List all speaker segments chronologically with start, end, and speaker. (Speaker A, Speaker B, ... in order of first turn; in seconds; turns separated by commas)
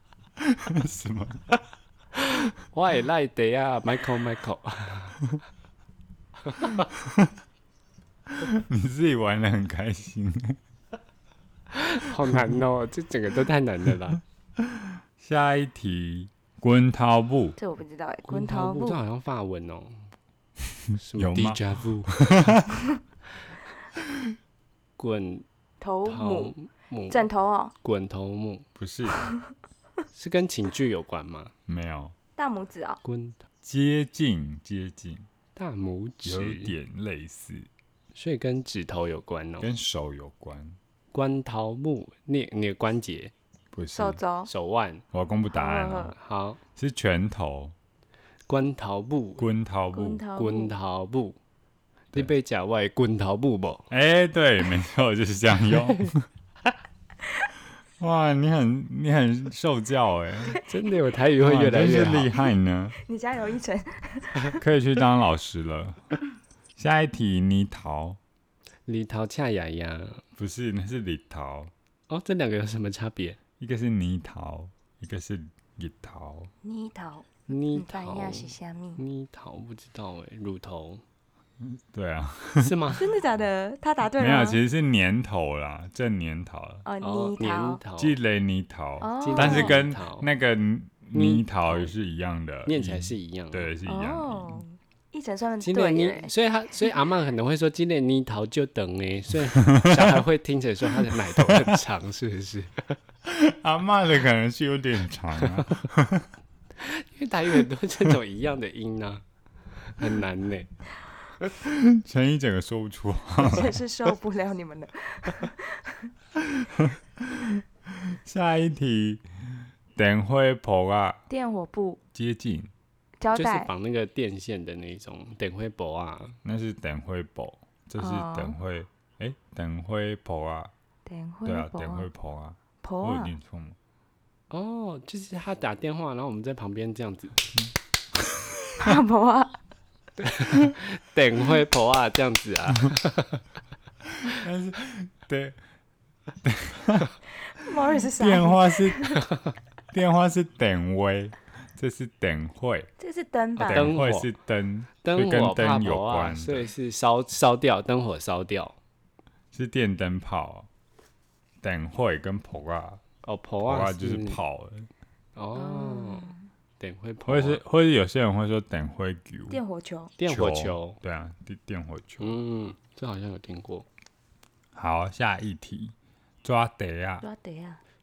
Speaker A: 0.4-1.4, Speaker B: 2.7-5.2, Speaker B: 6.5-6.8, Speaker A: 7.0-7.3, Speaker A: 8.3-10.6, Speaker B: 11.7-14.2, Speaker A: 14.6-17.6, Speaker C: 17.6-19.0, Speaker B: 18.3-20.1, Speaker B: 21.0-22.3, Speaker A: 21.2-22.7, Speaker B: 25.0-25.4, Speaker C: 25.8-26.5, Speaker B: 26.0-27.3, Speaker C: 27.1-27.7, Speaker B: 27.8-28.6, Speaker A: 28.8-29.3, Speaker B: 30.1-31.5, Speaker A: 31.7-32.1, Speaker C: 32.4-33.0, Speaker B: 33.0-33.4, Speaker A: 33.6-35.3, Speaker B: 35.5-36.7, Speaker A: 36.2-37.7, Speaker B: 38.1-39.7, Speaker A: 39.6-40.8, Speaker B: 41.1-43.3, Speaker A: 43.7-44.2, Speaker C: 43.9-44.5, Speaker B: 44.5-45.0, Speaker A: 45.1-46.1, Speaker C: 45.5-46.1, Speaker B: 46.1-46.6, Speaker A: 46.8-47.7, Speaker B: 48.5-49.5, Speaker A: 49.4-50.2, Speaker C: 49.9-50.7, Speaker B: 50.3-51.4, Speaker B: 52.1-53.9, Speaker A: 53.9-56.2, Speaker A: 58.0-60.6, Speaker B: 60.6-62.3, Speaker A: 61.4-63.0, Speaker C: 63.0-64.6, Speaker A: 64.6-66.0, Speaker A: 66.8-68.2, Speaker B: 68.9-70.2, Speaker A: 70.3-71.7, Speaker B: 72.1-73.4, Speaker A: 73.6-76.5, Speaker C: 76.6-79.0, Speaker B: 77.5-81.0, Speaker A: 81.6-82.7, Speaker B: 82.6-83.1, Speaker C: 83.0-84.6, Speaker A: 84.2-86.8, Speaker C: 86.8-87.8, Speaker B: 87.0-88.2, Speaker A: 88.0-94.6, Speaker C: 89.0-89.8, Speaker B: 89.2-90.3, Speaker B: 91.1-91.9, Speaker B: 92.7-93.7, Speaker C: 93.8-96.3, Speaker B: 95.6-103.0, Speaker A: 99.7-100.0, Speaker A: 101.4-101.8, Speaker A: 103.2-106.3, Speaker B: 106.8-109.2, Speaker B: 109.8-110.7, Speaker A: 111.6-113.8, Speaker C: 113.4-116.1, Speaker A: 116.4-121.2, Speaker C: 121.3-122.0, Speaker A: 122.1-122.7, Speaker C: 123.2-123.7, Speaker B: 123.3-126.4, Speaker A: 126.4-130.7, Speaker C: 128.0-128.6, Speaker C: 131.1-132.1, Speaker A: 131.4-133.8, Speaker C: 132.8-133.3, Speaker B: 134.5-137.4, Speaker A: 138.2-138.9, Speaker C: 138.8-139.5, Speaker B: 140.2-143.4, Speaker A: 144.2-145.6, Speaker A: 146.4-147.1, Speaker C: 147.5-149.2, Speaker A: 148.1-149.2, Speaker B: 149.3-149.5, Speaker A: 149.9-152.9, Speaker C: 153.0-153.9, Speaker B: 153.6-154.3, Speaker A: 153.6-156.7, Speaker B: 155.0-158.8, Speaker A: 159.5-160.7, Speaker A: 161.6-163.0, Speaker B: 163.2-164.4, Speaker A: 163.6-164.9, Speaker B: 165.3-167.6, Speaker C: 165.5-166.4, Speaker A: 167.2-169.6, Speaker C: 169.5-170.1, Speaker B: 170.2-171.0, Speaker A: 170.3-172.3, Speaker B: 172.2-173.8, Speaker A: 174.7-177.2, Speaker C: 177.2-177.8